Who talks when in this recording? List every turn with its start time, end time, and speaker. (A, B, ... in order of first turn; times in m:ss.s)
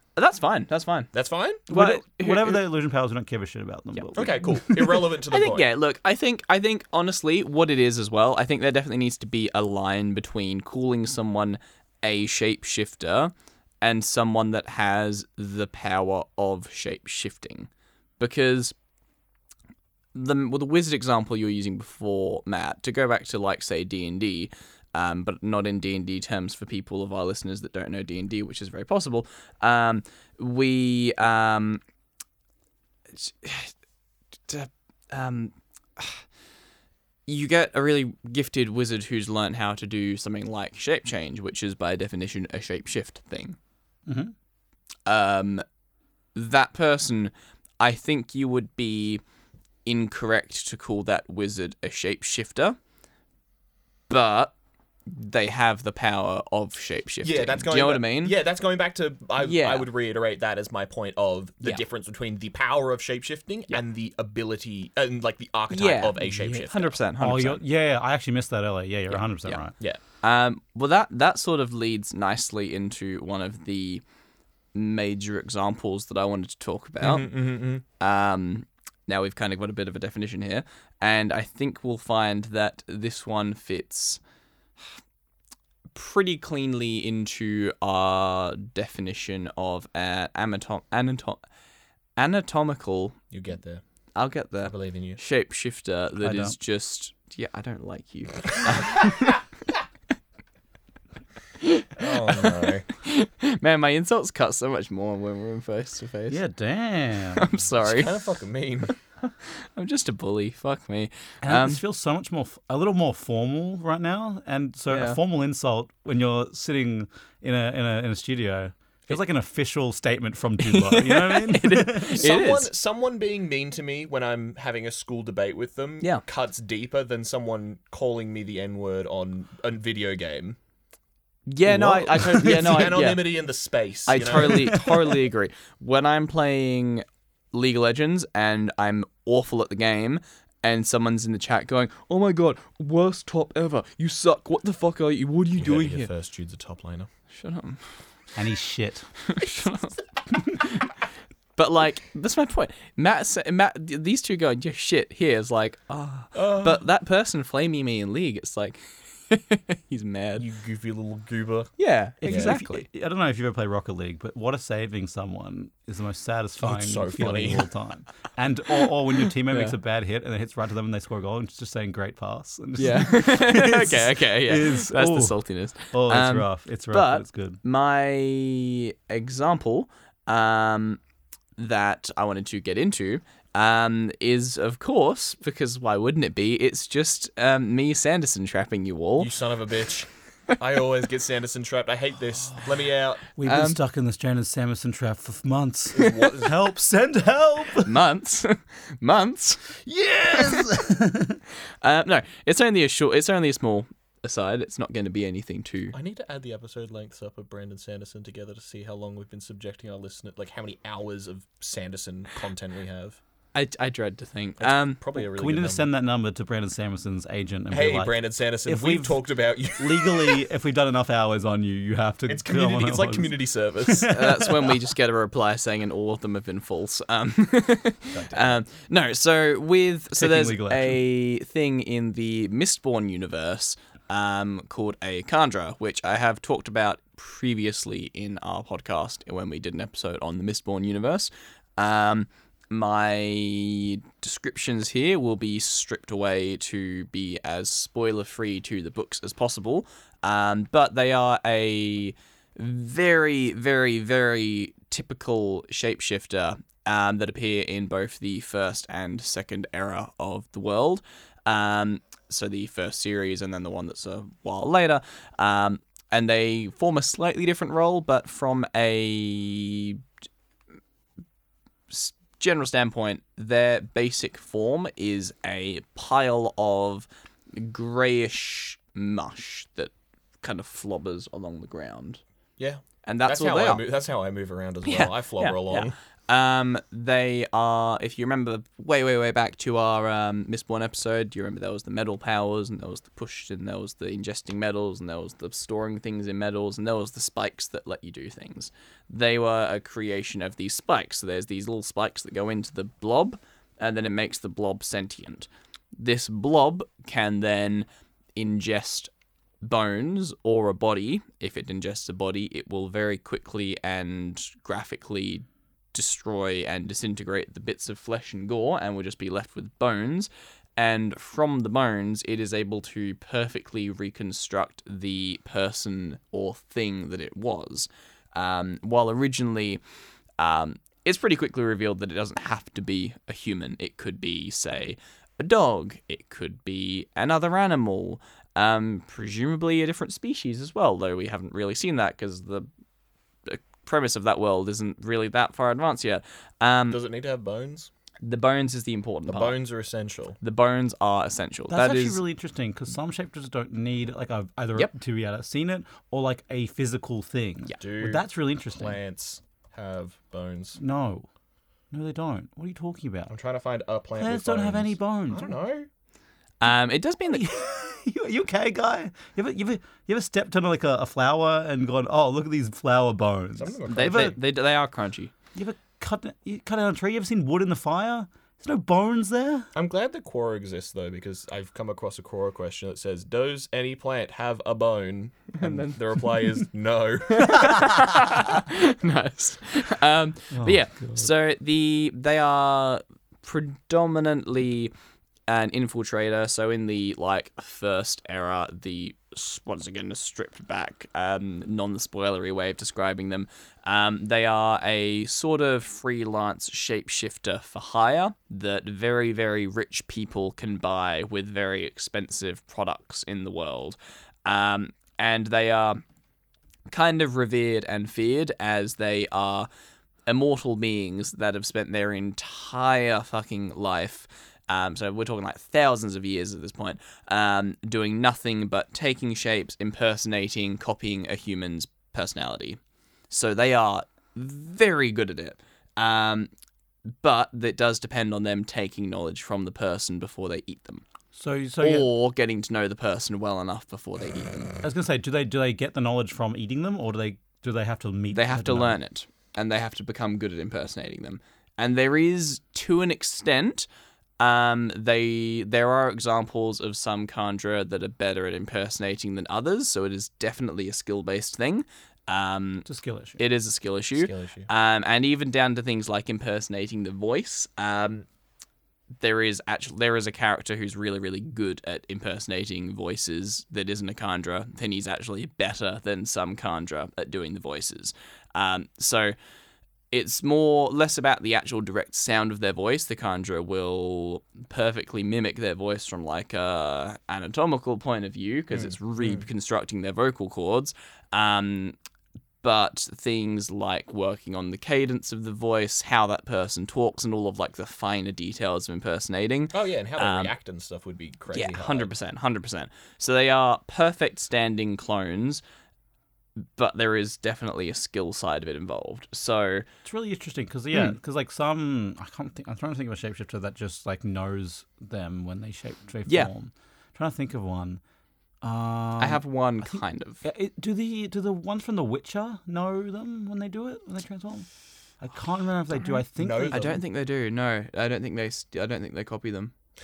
0:00.2-0:01.1 A
0:01.1-0:01.6 B
0:01.7-0:02.6 A
0:01.7-0:04.9 C
0:04.1-0:05.7 B
0:05.3-0:18.7 A
0:20.1-0:31.8 A
0:33.2-0:33.7 A
0:34.5-0:36.2 A
0:37.3-0:43.6 A
0:44.0-0:44.3 C
0:45.0-0:45.6 A
0:46.3-0:49.2 A
0:49.8-0:52.8 A
0:54.1-0:54.5 A
0:55.1-0:58.4 A
0:57.2-1:07.0 B
0:59.4-0:59.9 A
1:05.7-1:07.6 A
1:07.2-1:09.7 C
1:10.2-1:14.0 A
1:14.7-1:17.3 A
1:17.0-1:17.8 B
1:18.0-1:24.2 A
1:25.9-1:31.4 A
1:32.2-1:33.2 A
1:33.3-1:33.8 B
1:34.2-1:39.4 A
1:34.6-1:35.2 B
1:36.2-1:36.6 C
1:41.6-1:46.4 A
1:42.0-1:42.9 B
1:46.3-1:47.5 C
1:47.3-1:48.1 A
1:47.8-1:48.9 B
1:49.2-1:51.8 A
1:51.4-2:02.2 C
1:54.9-1:55.2 A
2:00.6-2:02.7 A
2:02.1-2:10.6 B
2:11.5-2:13.3 A
2:11.7-2:14.8 B
2:14.1-2:26.1 A
2:14.4-2:14.8 C
2:25.6-2:27.1 B
2:27.3-2:27.8 A
2:28.3-2:29.6 C
2:29.2-2:30.0 A
2:30.5-2:30.8 A
2:31.6-2:40.4 A
2:36.3-2:36.8 B
2:40.4-2:41.7 B
2:41.8-2:42.8 A
2:42.2-2:57.6 C
2:42.2-2:42.6 B
2:46.6-2:47.7 B
2:49.5-2:49.7 A
2:52.8-3:01.0 A
3:01.6-3:09.3 A
3:09.2-3:13.3 B
3:13.4-3:17.9 C
3:13.4-3:13.8 A
3:15.9-3:16.6 B
3:17.8-3:19.7 A
3:19.8-3:21.4 C
3:21.8-3:25.9 A
3:25.9-3:33.2 B
3:33.5-3:35.0 A
3:34.6-3:35.9 B
3:35.2-3:39.2 C
3:37.7-3:40.4 B
3:39.8-3:44.6 C
3:42.3-3:44.4 B
3:44.0-4:30.0 A
3:48.1-3:48.6 B
3:50.2-3:51.0 C
4:31.9-4:42.2 A
4:42.6-4:45.9 B
4:43.0-4:43.8 A
4:44.8-5:09.1 A
5:09.6-5:29.8 A
5:30.4-5:42.7 A
5:43.4-5:47.0 A
5:46.9-5:47.9 B
5:48.2-5:49.6 A
5:49.3-5:50.4 B
5:50.4-5:52.2 A
5:51.7-5:59.0 C
5:57.8-6:00.8 B
6:00.8-6:01.3 C
6:01.9-6:03.3 C
6:03.3-6:05.9 B
6:04.2-6:05.6 C
6:06.6-6:07.5 A
6:07.3-6:14.4 C
6:13.6-6:14.4 B
6:13.9-6:15.3 A
6:15.5-6:19.7 C
6:19.7-6:28.0 B
6:25.6-6:26.0 A
6:27.3-6:34.9 A
6:30.5-6:31.3 C
6:35.5-6:56.0 A
6:56.9-6:59.7 A
7:00.3-7:12.8 A
7:13.3-7:16.5 A
7:17.2-7:21.0 A
7:21.3-7:22.1 C
7:21.8-7:24.8 A
7:24.8-7:29.0 C
7:28.3-7:33.9 A
7:34.4-7:42.8 A
7:42.8-7:43.4 C
7:43.4-7:48.2 A
7:44.1-7:44.7 B
7:49.2-7:59.3 A
8:00.1-8:12.0 A
8:08.7-8:09.4 B
8:12.6-8:20.5 A
8:19.7-8:22.1 B
8:21.5-8:25.6 A
8:26.8-8:29.8 A
8:30.0-8:38.0 C
8:36.2-8:36.5 A
8:38.6-8:44.7 C
8:39.2-8:40.4 A
8:45.2-8:47.0 C
8:46.4-8:47.0 B
8:46.7-8:49.7 A